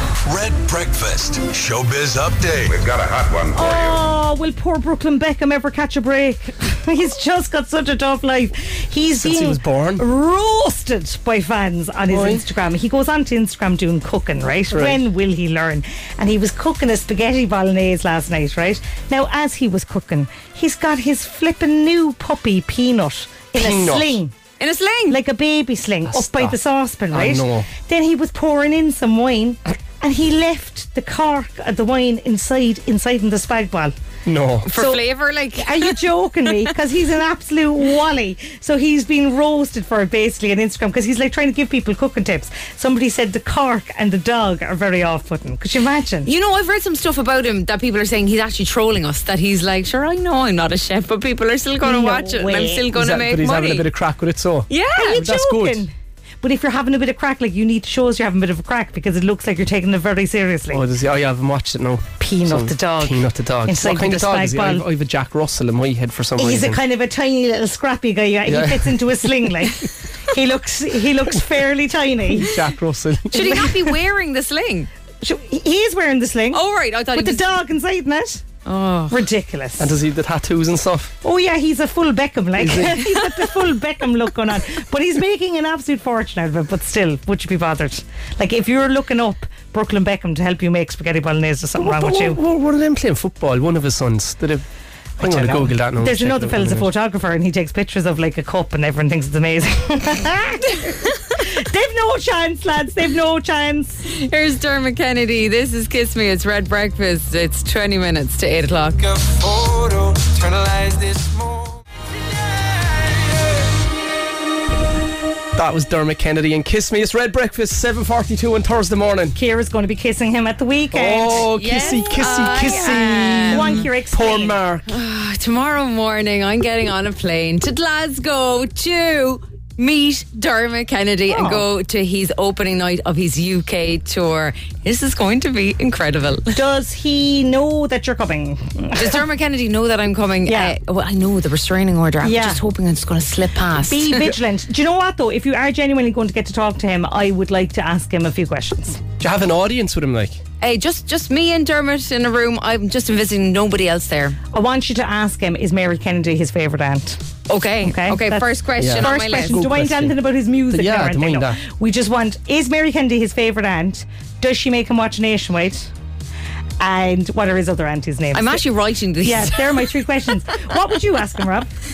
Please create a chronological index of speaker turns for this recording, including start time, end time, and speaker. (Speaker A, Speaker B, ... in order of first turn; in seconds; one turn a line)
Speaker A: 0.2-3.0
Speaker B: 3.5-24.3
Speaker C: 9.2-10.0
Speaker C: 12.1-12.4
Speaker C: 14.7-15.0
Speaker C: 23.6-24.2
Speaker D: 24.6-25.2
Speaker B: 25.1-33.9
Speaker C: 26.1-26.6
Speaker C: 27.1-27.7
Speaker C: 34.2-34.7
Speaker D: 34.6-36.0
Speaker B: 34.7-35.0
Speaker B: 35.6-46.3
Speaker D: 46.2-53.9
Speaker B: 51.8-52.9
Speaker C: 52.9-55.8
Speaker D: 54.7-55.2
Speaker B: 55.0-60.8
Speaker C: 60.7-66.8
Speaker B: 62.2-64.8
Speaker B: 66.4-72.6
Speaker C: 68.5-69.3
Speaker C: 72.3-73.7
Speaker D: 73.3-74.9
Speaker B: 73.4-73.9
Speaker B: 75.2-76.6
Speaker D: 76.5-77.4
Speaker B: 77.1-78.4
Speaker D: 78.7-79.2
Speaker B: 79.1-79.9
Speaker C: 79.8-81.1
Speaker B: 81.2-92.4
Speaker C: 82.6-83.2
Speaker C: 91.8-94.6
Speaker C: 95.2-96.9
Speaker B: 95.2-104.0
Speaker D: 104.1-109.0
Speaker E: 109.0-111.8
Speaker C: 115.5-119.3
Speaker B: 119.3-121.5
Speaker C: 120.9-124.9
Speaker D: 121.4-123.8
Speaker B: 122.5-124.6
Speaker D: 124.9-136.6
Speaker B: 131.3-131.7
Speaker B: 136.5-139.2
Speaker D: 138.9-144.3
Speaker B: 140.5-140.7
Speaker B: 142.2-142.6
Speaker B: 143.8-149.0
Speaker C: 149.2-150.4
Speaker D: 150.6-154.4
Speaker B: 154.5-157.2
Speaker D: 157.5-159.6
Speaker B: 157.8-165.9
Speaker C: 158.8-160.2
Speaker C: 160.7-161.6
Speaker B: 166.8-168.6
Speaker D: 168.3-169.7
Speaker B: 169.2-171.7